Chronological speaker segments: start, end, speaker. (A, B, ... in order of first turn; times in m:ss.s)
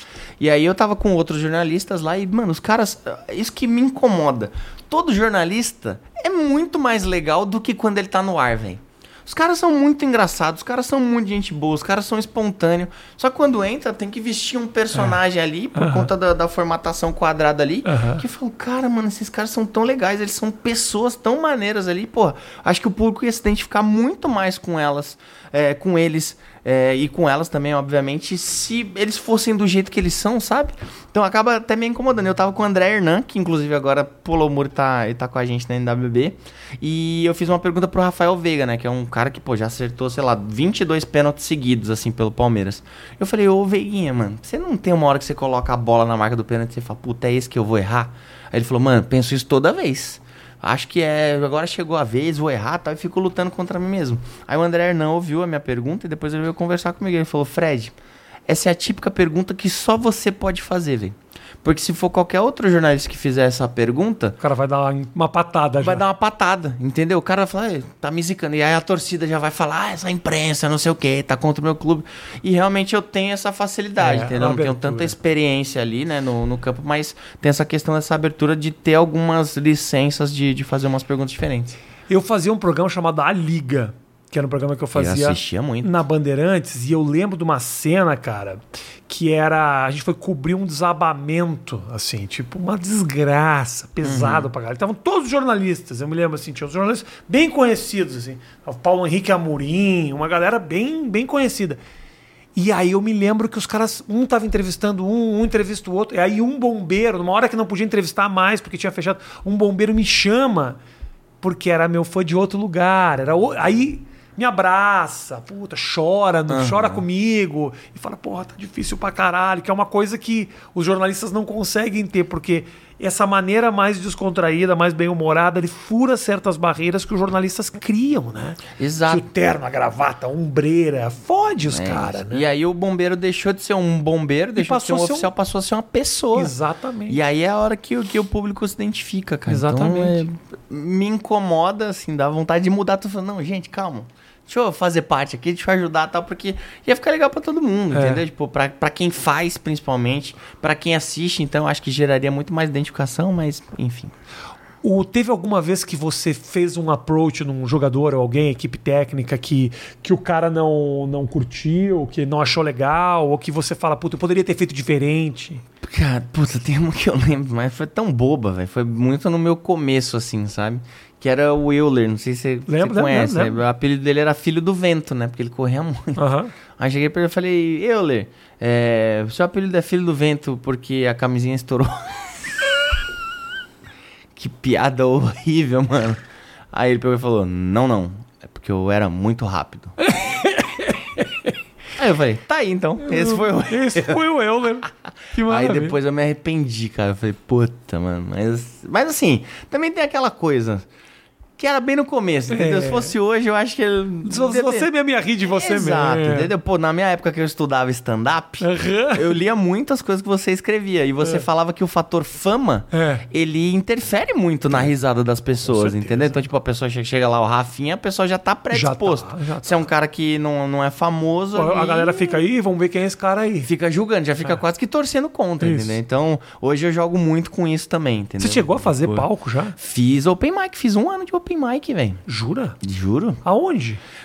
0:00.4-0:57.9 A
0:15.7-0:16.1 B
0:17.8-0:18.2 B
0:58.5-1:04.4 A
1:04.4-1:06.0 B
1:05.8-1:21.7 A
1:14.0-1:15.1 B
1:22.1-1:41.8 B
1:24.9-1:25.9 A
1:34.0-1:34.5 A
1:42.6-1:50.8 B
1:51.4-2:12.4 B
1:56.5-1:57.0 A
2:08.8-2:09.2 A
2:11.7-2:16.5 A
2:14.6-2:15.3 B
2:16.3-2:17.2 B
2:17.1-2:34.1 A
2:19.5-2:20.2 B
2:27.9-2:28.2 B
2:34.8-2:45.6 B
2:45.8-2:56.2 A
2:52.7-2:53.6 B
2:56.2-2:56.5 B
2:56.8-3:02.4 A
3:04.3-3:10.0 A
3:10.0-3:11.5 B
3:11.9-3:14.2 A
3:13.0-3:16.0 B
3:15.4-3:20.9 A
3:21.6-3:24.9 A
3:22.5-3:23.1 B
3:24.2-3:26.5 B
3:25.4-3:42.4 A
3:28.6-3:29.4 B
3:31.2-3:31.4 B
3:32.9-3:33.2 B
3:35.6-3:36.3 B
3:38.7-3:39.8 B
3:41.5-3:43.7 B
3:43.6-3:52.2 A
3:45.6-3:46.0 B
3:48.4-3:49.8 B
3:52.3-3:52.8 B
3:52.8-3:53.4 A
3:53.4-3:54.0 B